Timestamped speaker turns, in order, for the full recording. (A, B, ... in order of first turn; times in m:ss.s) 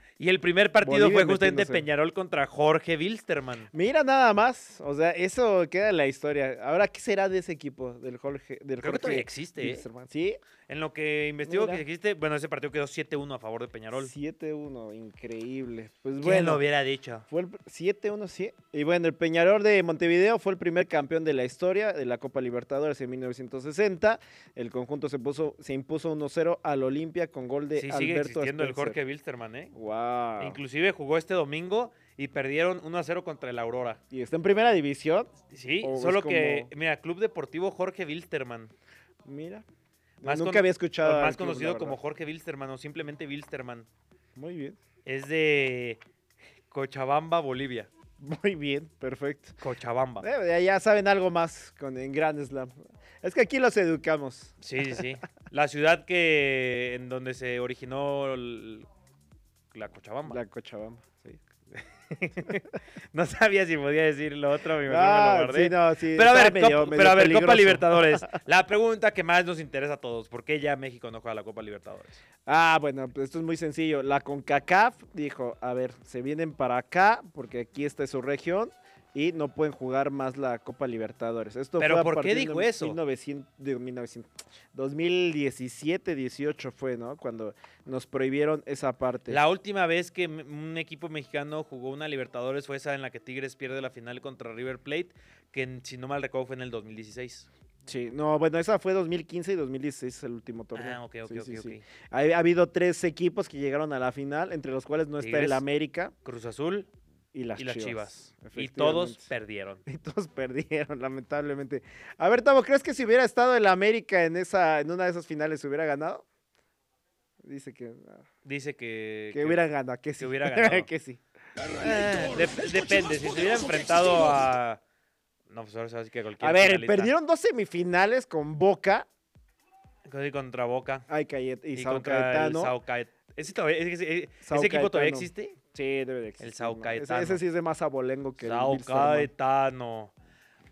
0:00.2-0:03.7 A
0:00.8-0:01.9 B
0:03.7-0:10.4 B
0:08.8-0:09.9 A
0:10.7-0:14.1 A
0:11.4-0:11.8 B
0:14.0-0:16.6 B
0:16.2-0:17.2 A
0:17.3-0:29.0 B
0:27.8-0:29.7 A
0:29.7-0:30.6 B
0:30.4-0:34.0 A
0:34.1-0:36.7 B
0:35.5-0:38.7 A
0:39.2-0:39.6 B
0:40.2-0:42.0 B
0:40.2-0:43.9 A
0:44.4-0:44.8 B
0:45.0-0:46.0 A
0:46.7-0:47.9 A
0:48.2-0:49.6 B
0:49.6-0:50.3 A
0:50.2-0:55.0 B
0:54.6-0:58.9 A
0:59.7-1:00.4 A
1:00.3-1:01.4 B
1:01.8-1:12.2 A
1:04.9-1:08.4 B
1:12.5-1:29.4 B
1:21.8-1:23.0 A
1:29.3-1:37.5 A
1:37.9-1:46.1 B
1:40.8-1:41.8 A
1:45.2-1:45.6 A
1:46.2-1:46.9 A
1:47.3-1:49.3 B
1:47.6-1:49.8 A
1:49.9-1:56.3 B
1:57.4-1:58.3 B
1:58.4-1:59.6 A
1:59.3-2:01.2 B
2:00.2-2:00.9 A
2:01.8-2:04.8 A
2:05.5-2:07.1 A
2:06.4-2:09.1 B
2:10.1-2:11.1 A
2:11.1-2:12.8 B
2:11.7-2:15.6 A
2:14.4-2:19.3 B
2:16.4-2:17.4 A
2:18.4-2:20.1 A